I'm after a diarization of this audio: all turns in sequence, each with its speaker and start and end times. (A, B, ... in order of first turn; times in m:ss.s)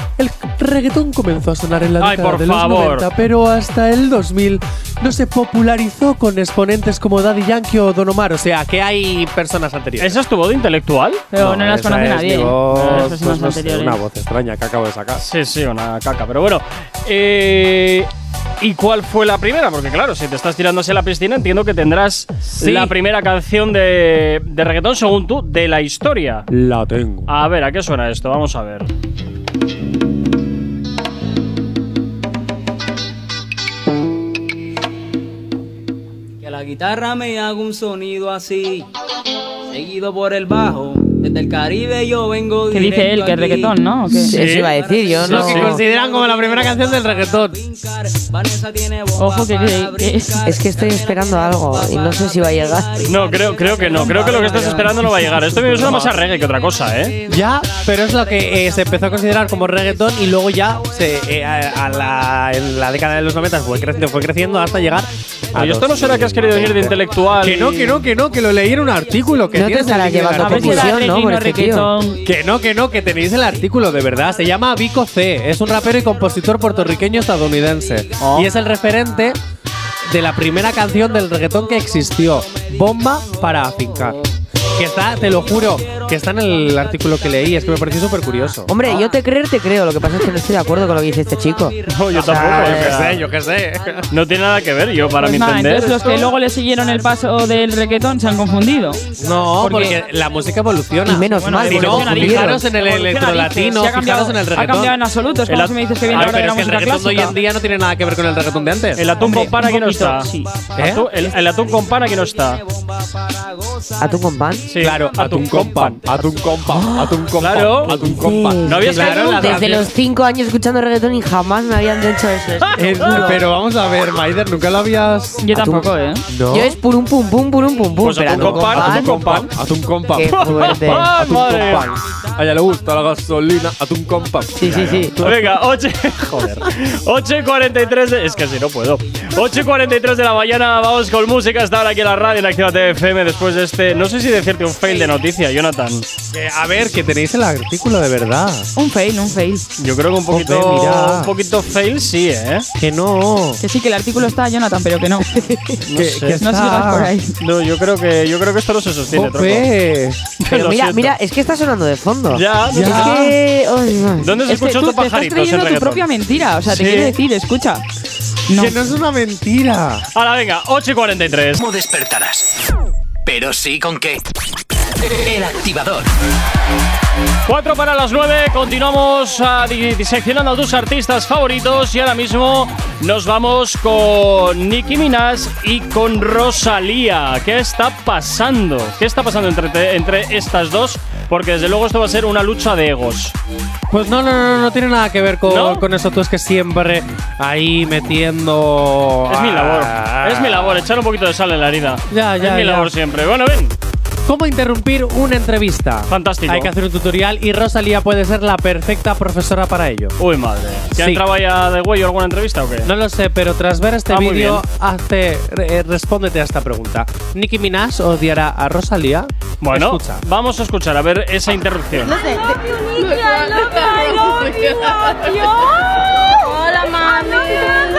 0:00.2-0:10.2 A
0:02.0-0:03.0 B
0:10.0-0:11.2 B
0:11.3-0:14.0 C
0:11.4-0:15.2 A
0:12.8-0:13.1 B
0:15.2-0:18.1 B
0:18.6-0:26.5 B
0:22.5-0:22.9 A
0:26.5-0:27.3 A
0:27.3-0:28.9 B
0:36.4-0:38.9 D
0:39.7-0:43.8 D
0:42.7-0:44.3 C
0:44.1-0:45.8 E
0:44.3-0:44.7 B
0:44.3-1:02.3 D
0:45.2-0:47.6 A
0:45.2-0:45.8 B
0:49.2-0:50.4 C
0:50.4-0:53.1 E
0:53.0-0:57.2 B
0:53.8-0:55.1 C
0:55.5-0:56.2 A
0:57.3-1:11.0 A
1:03.8-1:04.8 D
1:05.5-1:08.0 B
1:07.8-1:09.6 D
1:09.5-1:11.9 E
1:10.4-1:12.2 C
1:12.0-1:14.7 D
1:12.2-1:19.4 A
1:15.7-1:19.2 D
1:18.2-1:18.5 B
1:20.1-1:24.2 A
1:21.1-1:24.3 D
1:24.7-1:28.7 A
1:25.1-1:29.2 D
1:28.7-1:33.0 E
1:30.6-1:32.4 D
1:31.9-1:33.2 B
1:32.1-1:34.1 A
1:33.0-1:40.4 D
1:34.1-1:36.3 B
1:35.2-1:39.0 C
1:39.2-1:45.0 A
1:39.6-1:40.0 C
1:41.0-1:42.6 E
1:41.4-1:47.4 C
1:45.5-1:46.5 B
1:46.1-1:49.1 A
1:48.5-1:49.2 D
1:48.9-1:52.6 B
1:49.2-1:50.6 C
1:50.8-1:51.1 A
1:50.9-1:54.4 D
1:54.0-1:54.6 E
1:54.6-1:56.3 B
1:54.8-1:59.9 A
1:56.7-1:57.3 E
1:57.4-1:58.0 B
1:57.9-2:03.4 E
1:58.6-1:59.9 B
2:02.6-2:03.4 B
2:02.7-2:05.5 A
2:05.4-2:06.2 C
2:05.6-2:05.9 E
2:06.3-2:06.8 A
2:06.5-2:09.3 E
2:08.0-2:09.5 B
2:08.3-2:15.6 A
2:10.1-2:11.2 E
2:10.3-2:11.9 B
2:14.6-2:15.2 E
2:14.7-2:26.0 B
2:19.2-2:19.9 D
2:26.3-2:28.7 A
2:28.8-2:29.6 C
2:29.8-2:32.7 B
2:30.3-2:31.3 A
2:32.8-2:33.6 A
2:33.6-2:35.3 C
2:35.3-2:35.8 E
2:35.8-2:36.4 B
2:35.9-2:37.1 A
2:36.4-2:37.3 C
2:37.4-2:39.7 B
2:39.1-2:40.3 A
2:40.4-2:41.2 B
2:40.5-2:44.3 E
2:42.3-2:43.2 B
2:42.7-2:43.3 A
2:44.2-2:46.0 B
2:44.5-2:47.8 C
2:46.6-2:47.2 B
2:48.5-2:48.8 C
2:48.5-2:50.0 A
2:50.1-2:51.6 B
2:51.6-2:52.5 F
2:53.2-2:54.2 F
2:55.1-2:56.1 F
2:57.4-3:13.3 B
3:13.9-3:20.9 A
3:15.5-3:15.8 B
3:19.3-3:23.7 B
3:22.1-3:22.9 A
3:24.2-3:30.1 A
3:26.1-3:26.7 B
3:30.2-3:32.9 B
3:30.9-3:31.2 A
3:32.8-3:40.2 A
3:34.1-3:34.6 B
3:39.6-3:42.2 B